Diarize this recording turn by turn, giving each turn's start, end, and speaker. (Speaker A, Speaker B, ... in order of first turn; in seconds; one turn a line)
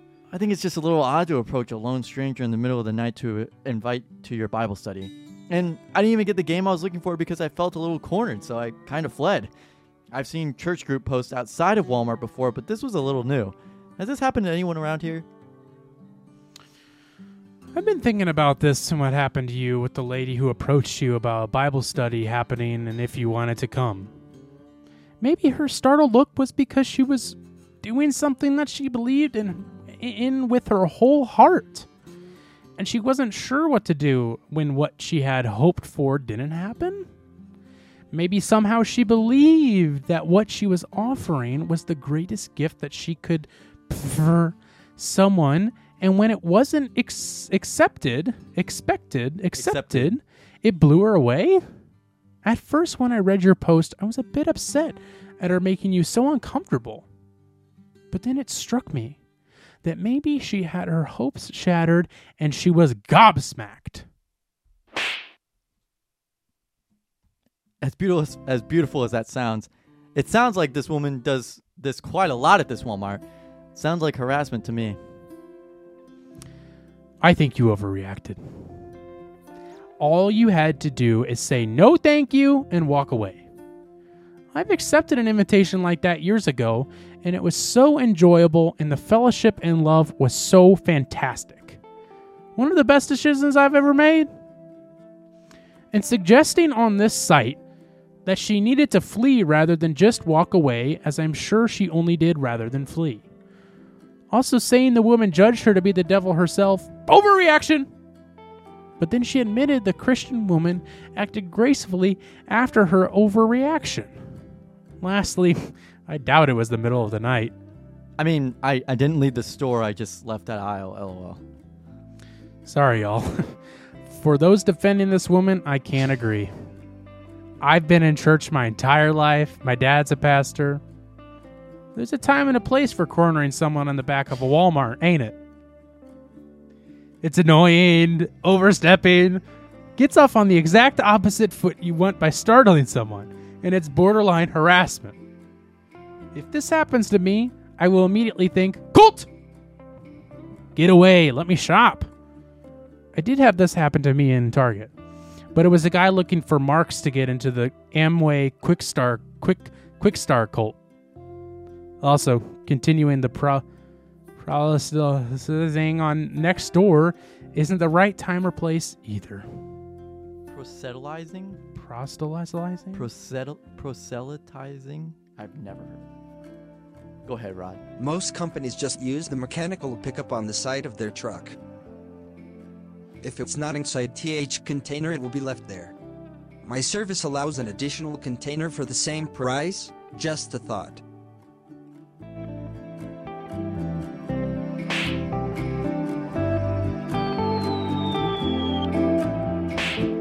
Speaker A: 0.3-9.5
Speaker A: 10.1-15.3
Speaker B: 17.7-24.1
Speaker B: 25.2-31.9
Speaker B: 32.8-37.1
Speaker B: 38.1-51.6
Speaker A: 49.5-50.2
Speaker B: 52.4-57.1
Speaker B: 58.1-59.2
Speaker B: 59.8-64.0
Speaker A: 67.8-73.2
Speaker A: 73.7-75.0
Speaker B: 77.2-78.4
Speaker B: 80.0-83.4
Speaker B: 84.5-91.8
Speaker B: 92.5-94.3
Speaker B: 95.9-97.6
Speaker B: 98.2-103.2
Speaker B: 104.3-107.9
Speaker B: 109.0-114.1
Speaker B: 115.0-117.5
Speaker A: 118.2-121.4
Speaker B: 122.6-126.5
Speaker B: 127.6-130.8
Speaker B: 131.9-135.4
Speaker B: 137.2-139.4
Speaker B: 139.9-145.2
Speaker B: 146.3-149.3
Speaker B: 150.7-152.1
Speaker B: 153.1-154.9
Speaker B: 155.5-160.8
Speaker B: 162.0-163.6
Speaker B: 164.4-169.4
Speaker A: 170.5-171.6
Speaker B: 171.7-173.1
Speaker A: 172.9-176.1
Speaker A: 177.2-177.8
Speaker C: 178.0-181.6
Speaker C: 183.2-185.9
Speaker C: 186.6-191.0